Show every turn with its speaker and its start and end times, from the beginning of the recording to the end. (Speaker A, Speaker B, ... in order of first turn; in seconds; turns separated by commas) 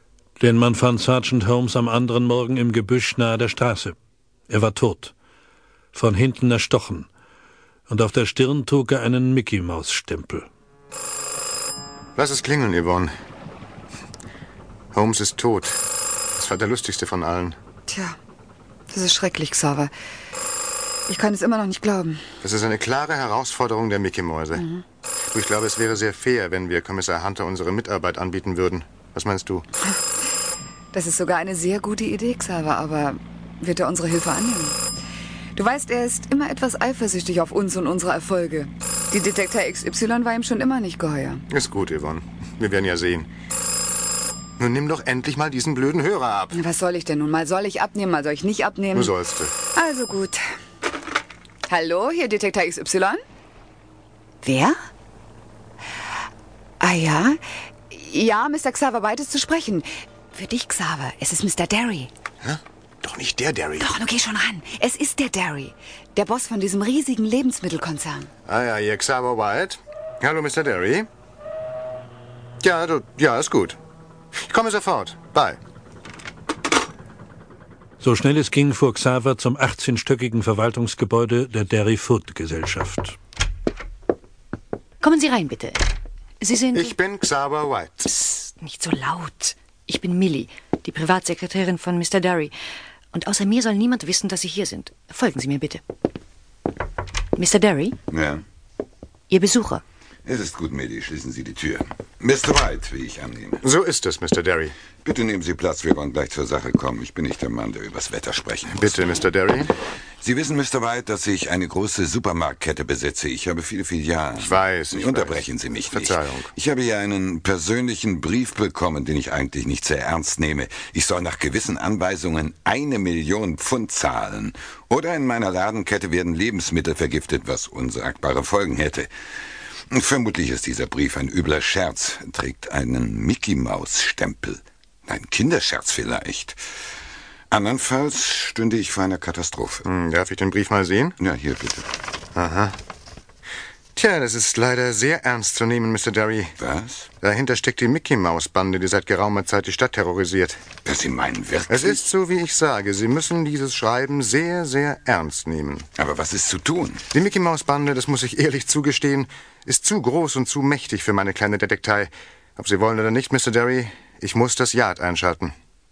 Speaker A: 0.4-4.0, Speaker A: 4.5-5.1, Speaker A: 5.9-7.1, Speaker A: 7.9-10.5, Speaker B: 12.2-13.1, Speaker B: 14.9-15.8, Speaker B: 16.3-17.6, Speaker C: 17.9-18.1, Speaker C: 18.9-19.9, Speaker C: 21.1-22.2, Speaker B: 22.4-24.7, Speaker B: 25.3-29.6, Speaker C: 30.9-34.8, Speaker C: 35.5-41.4, Speaker B: 41.5-43.3, Speaker B: 44.6-46.6, Speaker C: 46.5-49.1, Speaker B: 48.9-49.5, Speaker C: 49.7-50.4, Speaker C: 51.7-53.2, Speaker C: 54.4-54.8, Speaker C: 56.8-62.1, Speaker B: 62.4-63.9, Speaker C: 63.8-68.3, Speaker B: 68.5-71.1, Speaker B: 72.6-73.8, Speaker B: 74.4-75.6, Speaker A: 78.0-83.2, Speaker D: 85.0-85.8, Speaker D: 86.4-87.0, Speaker B: 86.7-88.1, Speaker D: 88.1-92.5, Speaker D: 93.1-95.8, Speaker D: 97.3-97.9, Speaker E: 98.1-98.4, Speaker D: 99.3-99.8, Speaker E: 100.2-103.6, Speaker B: 103.6-104.7, Speaker E: 105.0-109.1, Speaker B: 108.7-109.7, Speaker E: 110.2-129.1, Speaker B: 114.3-116.5, Speaker E: 129.9-136.6, Speaker E: 137.5-139.8, Speaker B: 139.8-141.2, Speaker E: 141.2-141.9, Speaker B: 142.3-142.8, Speaker B: 143.9-146.5, Speaker E: 146.6-147.1, Speaker B: 147.2-150.6, Speaker E: 150.8-152.0, Speaker B: 151.7-155.9, Speaker E: 155.9-157.0, Speaker B: 157.1-165.5